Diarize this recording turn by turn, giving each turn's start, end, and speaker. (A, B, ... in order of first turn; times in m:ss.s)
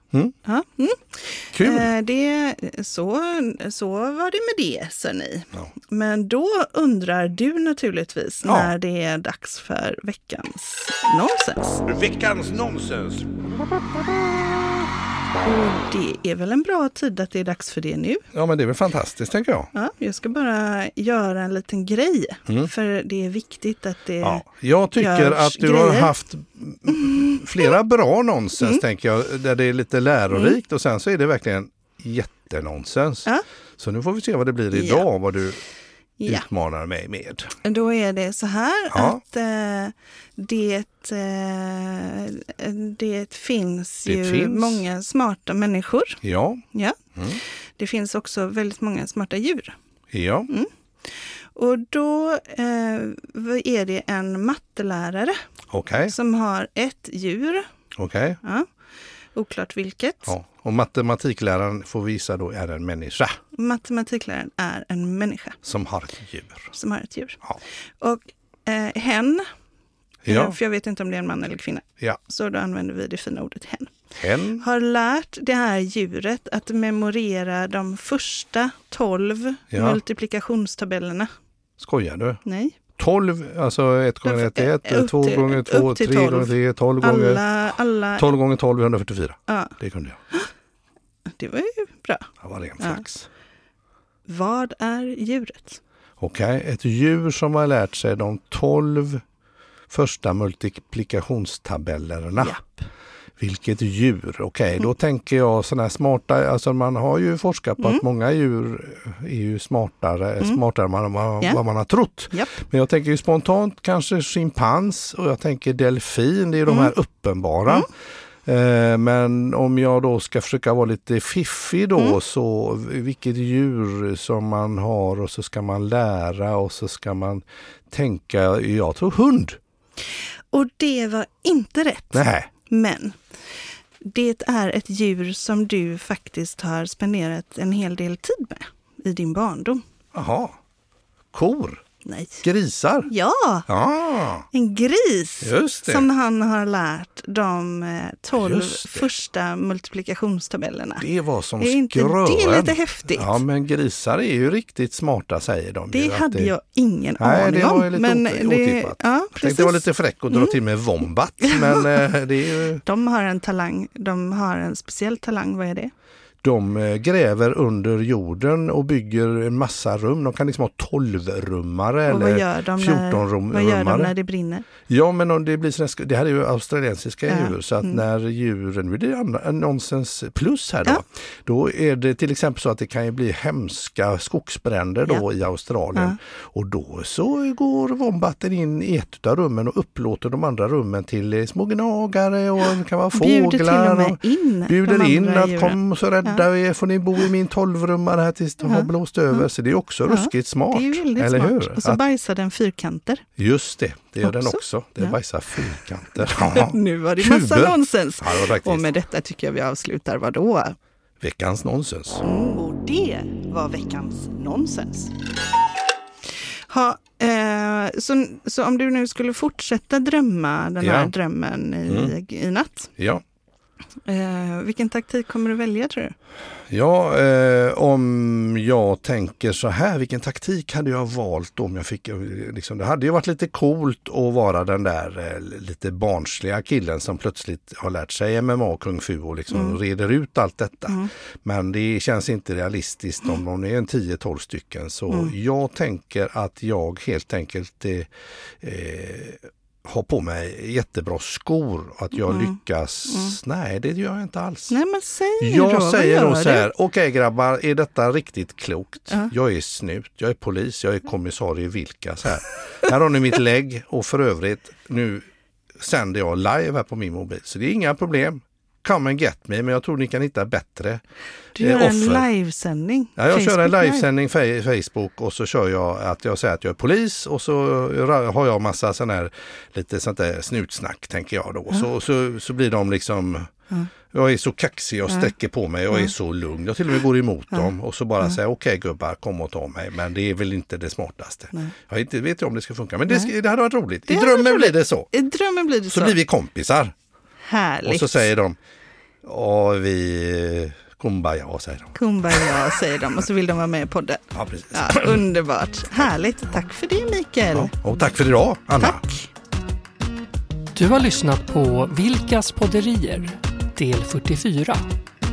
0:00.4-0:11.8 A
0:01.5-0:01.9 B
0:08.4-0:08.7 B
0:11.9-0:14.9 B
0:15.4-0:18.2 A
0:18.3-0:19.7 B
0:19.7-0:24.4 A
0:24.2-0:35.6 B
0:25.0-0:26.1 A
0:26.9-0:27.7 A
0:34.7-0:35.1 A
0:36.2-0:36.5 A
0:36.2-0:37.5 B
0:37.6-0:46.2 A
0:38.9-0:39.2 B
0:44.0-0:44.8 B
0:46.2-0:46.6 B
0:46.7-0:49.8 A
0:50.1-0:50.5 B
0:51.6-0:55.4 A
0:55.7-0:56.1 B
0:56.0-0:57.6 A
0:58.0-0:58.4 B
0:58.4-0:58.7 A
0:59.4-1:00.3 A
1:00.3-1:03.4 B
1:03.5-1:05.6 A
1:05.6-1:06.7 B
1:06.7-1:07.4 A
1:08.0-1:09.5 A
1:10.2-1:10.6 B
1:10.3-1:14.0 A
1:14.2-1:14.6 B
1:14.6-1:21.3 A
1:19.7-1:20.0 B
1:21.8-1:22.4 B
1:22.4-1:22.8 A
1:23.0-1:27.4 B
1:24.2-1:28.3 A
1:28.2-1:30.2 B
1:29.5-1:29.8 A
1:31.4-1:33.0 A
1:32.4-1:33.3 B
1:34.3-1:35.8 A
1:36.2-1:39.2 B
1:39.9-1:42.6 B
1:42.4-1:42.8 A
1:43.4-1:57.9 B
1:56.7-1:56.9 A
1:58.4-2:09.6 B
2:10.5-2:13.2 A
2:12.1-2:12.5 B
2:14.0-2:19.8 A
2:20.1-2:20.6 B
2:21.3-2:21.8 B
2:22.0-2:22.4 A
2:22.4-2:23.1 B
2:23.1-2:23.7 A
2:23.7-2:24.5 B
2:24.5-2:31.0 A
2:25.4-2:26.1 B
2:28.4-2:29.1 B
2:31.0-2:36.5 B
2:31.6-2:33.4 A
2:35.9-2:40.6 A
2:37.2-2:42.8 B
2:41.4-2:42.1 A
2:42.8-2:45.9 A
2:46.4-2:54.1 B
2:52.1-2:54.7 A
2:54.9-3:22.0 B
2:57.3-2:58.0 A
3:13.1-3:16.4 A
3:18.6-3:19.5 A
3:20.1-3:23.2 A
3:23.4-3:28.9 B
3:24.2-3:25.2 A
3:26.3-3:30.8 A
3:31.2-3:32.2 B
3:32.2-3:35.1 A
3:36.7-3:42.9 A
3:40.8-3:41.1 B
3:41.9-3:42.2 B
3:43.0-3:43.2 B
3:44.0-3:46.2 A
3:46.7-4:08.1 B
3:59.5-3:59.8 A
4:05.1-4:05.3 A
4:08.6-4:14.8 B
4:12.3-4:13.4 A
4:14.7-4:16.7 A
4:15.4-4:31.0 B
4:31.6-4:34.1 A
4:31.6-4:32.3 B
4:33.2-4:43.5 B
4:44.1-4:55.1 B
4:54.1-4:56.2 A
4:55.9-4:56.9 B
4:57.4-4:58.3 A
4:57.8-4:58.6 B
4:59.2-5:02.6 B
5:01.9-5:07.7 A
5:04.3-5:05.2 B
5:07.5-5:09.0 B
5:08.8-5:09.3 A
5:10.8-5:14.9 C